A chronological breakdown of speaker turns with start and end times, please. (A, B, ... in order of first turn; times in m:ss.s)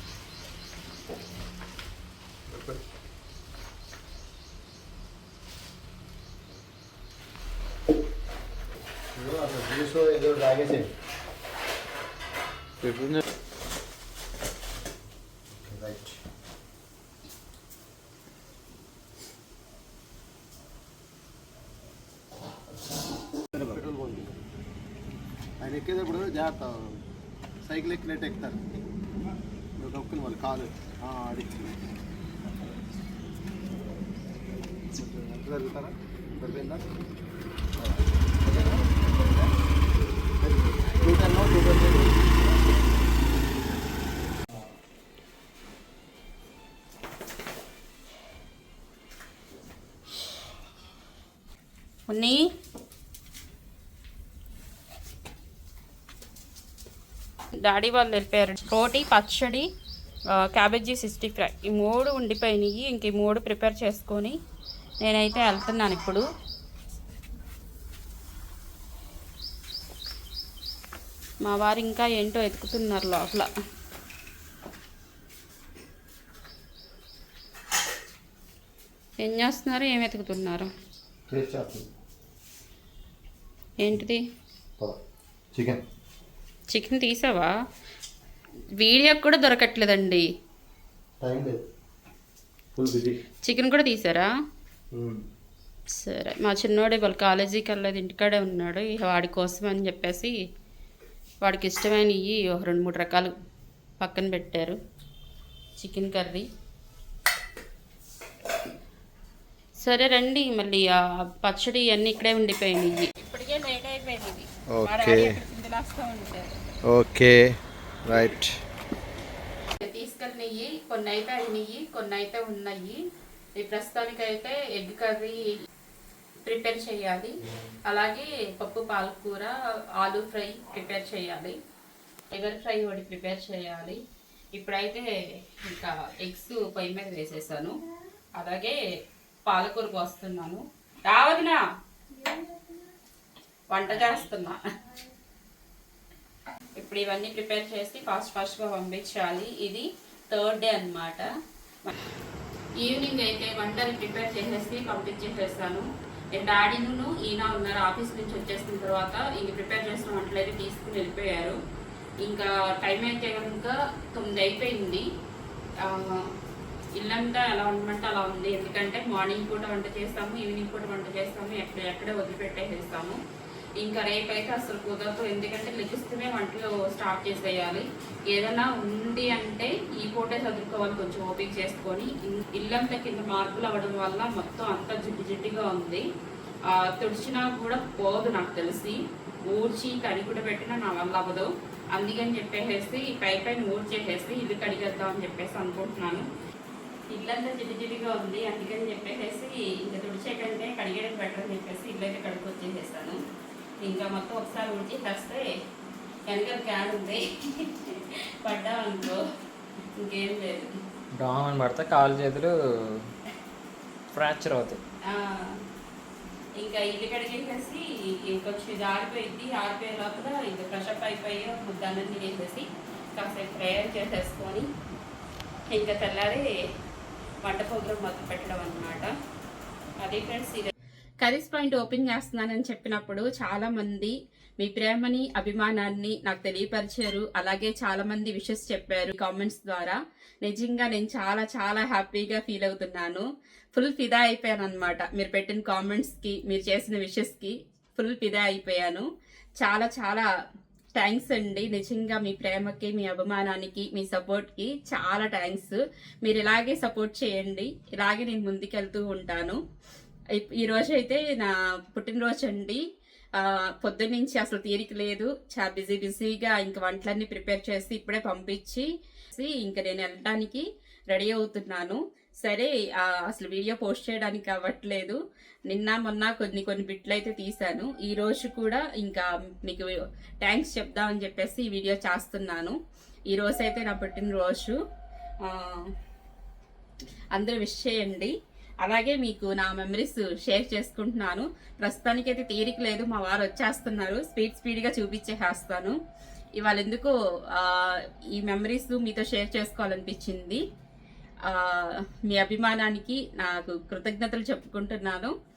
0:02.5-0:02.8 A
0:09.1-0:10.9 A
0:12.8-0:13.2 A
0:15.6-0:16.2 A
0:23.6-0:24.4 A
0:25.6-0:27.0 A
0:27.7-0:28.6 A
0:29.8-0:31.7 A
0:35.0-0:36.8 A
0:37.8-0:38.9 A
0:40.4-0:42.3 A
0:52.1-0:52.4 B
0:57.6-0:59.7 B
1:00.3-1:04.4 B
1:05.0-1:06.2 B
1:11.4-1:13.5 B
1:19.2-1:20.7 B
1:21.3-1:21.9 A
1:23.8-1:24.2 B
1:25.5-1:25.8 A
1:26.7-1:27.5 B
1:28.8-1:30.2 B
1:31.2-1:31.6 A
1:32.8-1:33.2 A
1:33.4-1:34.3 B
1:34.9-1:35.2 A
1:36.0-1:40.3 B
1:41.4-1:43.3 B
1:44.0-1:44.8 B
1:45.8-1:46.5 B
1:49.8-1:56.5 B
1:54.7-1:55.3 A
1:56.9-1:57.4 A
1:58.1-1:58.5 A
1:59.8-2:03.0 B
2:03.6-2:05.5 B
2:06.4-2:07.3 B
2:07.9-2:11.6 B
2:12.3-2:14.0 B
2:14.6-2:15.1 B
2:15.6-2:17.7 B
2:18.4-2:18.8 B
2:19.5-2:21.6 B
2:23.7-2:24.6 B
2:26.8-2:31.3 B
2:32.8-2:41.6 B
2:42.2-2:45.1 B
2:45.8-2:46.3 B
2:47.0-2:53.2 B
2:53.8-3:06.0 B
3:06.7-3:09.0 B
3:09.5-3:16.3 B
3:17.1-3:23.2 B
3:23.8-3:25.5 B
3:26.3-3:29.2 B
3:30.0-3:30.7 B
3:31.2-3:33.1 C
3:34.1-3:34.8 C
3:35.1-3:35.6 B
3:36.6-3:42.6 B
3:43.2-3:44.7 B
3:45.7-3:46.5 B
3:47.4-3:49.1 B
3:50.0-3:50.7 B
3:51.2-4:09.1 B
4:09.6-4:10.3 B
4:11.0-4:19.6 B
4:20.4-4:22.8 B
4:23.4-4:35.2 B
4:35.7-4:39.9 B
4:40.4-4:42.8 B
4:43.3-4:44.8 B
4:45.4-4:45.9 B
4:47.3-4:56.0 B
4:56.6-5:00.6 B
5:01.5-5:05.3 B